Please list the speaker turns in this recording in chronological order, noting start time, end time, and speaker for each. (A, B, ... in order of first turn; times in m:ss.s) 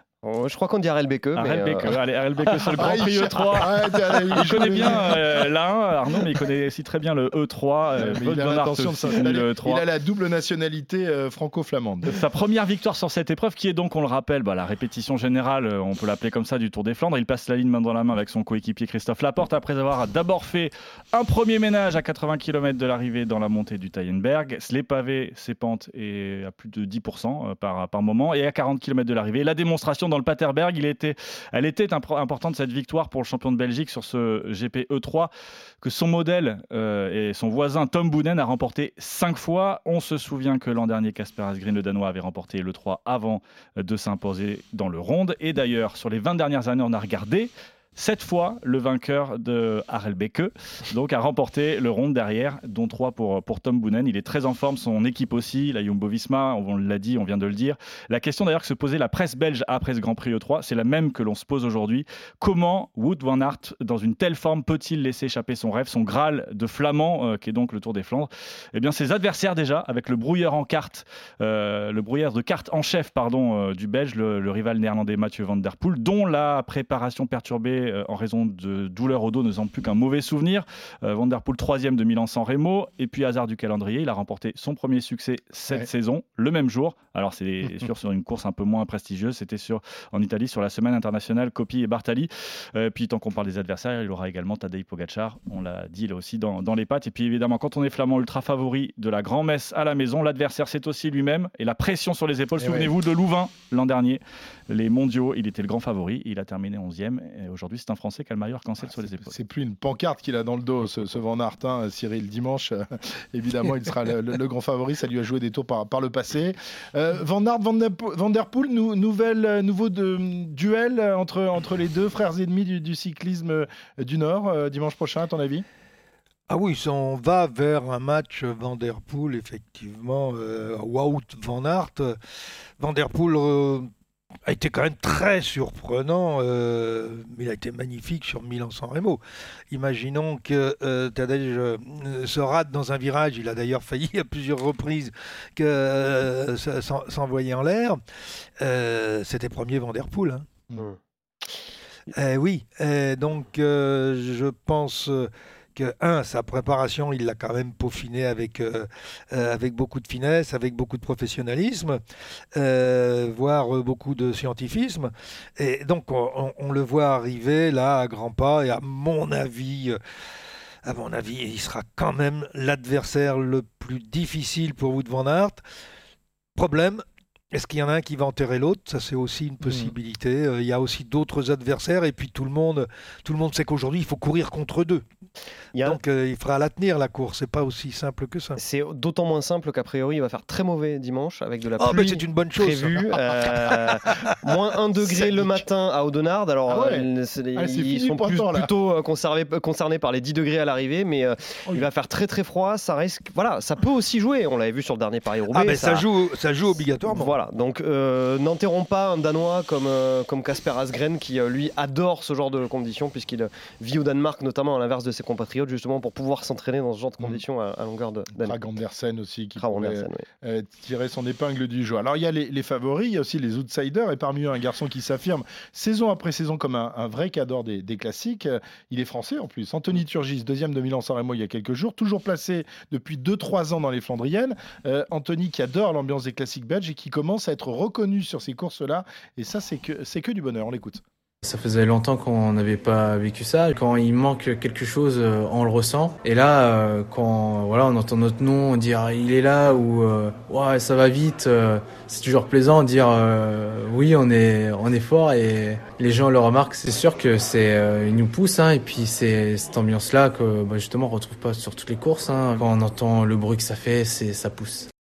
0:00.2-0:01.9 A
0:01.4-0:09.8 B
0:02.7-0:05.4 C
0:08.0-0:12.2 C
0:12.1-1:49.4 B
1:42.6-1:42.9 C
1:49.2-2:05.6 C
2:06.5-2:12.2 D
2:12.8-2:13.9 D
2:14.5-2:19.2 D
2:19.7-2:28.0 D
2:28.6-2:30.5 D
2:32.1-2:42.0 D
2:42.5-2:50.0 D
2:50.8-2:55.6 D
2:56.6-3:05.0 D
3:05.8-3:08.6 D
3:08.6-3:26.0 A
3:11.8-3:14.3 D
3:15.0-3:15.5 C
3:16.7-3:18.7 C
3:25.5-3:27.3 D
3:27.1-3:38.6 A
3:38.4-4:01.0 C
3:39.6-3:40.2 A
4:01.4-4:24.9 E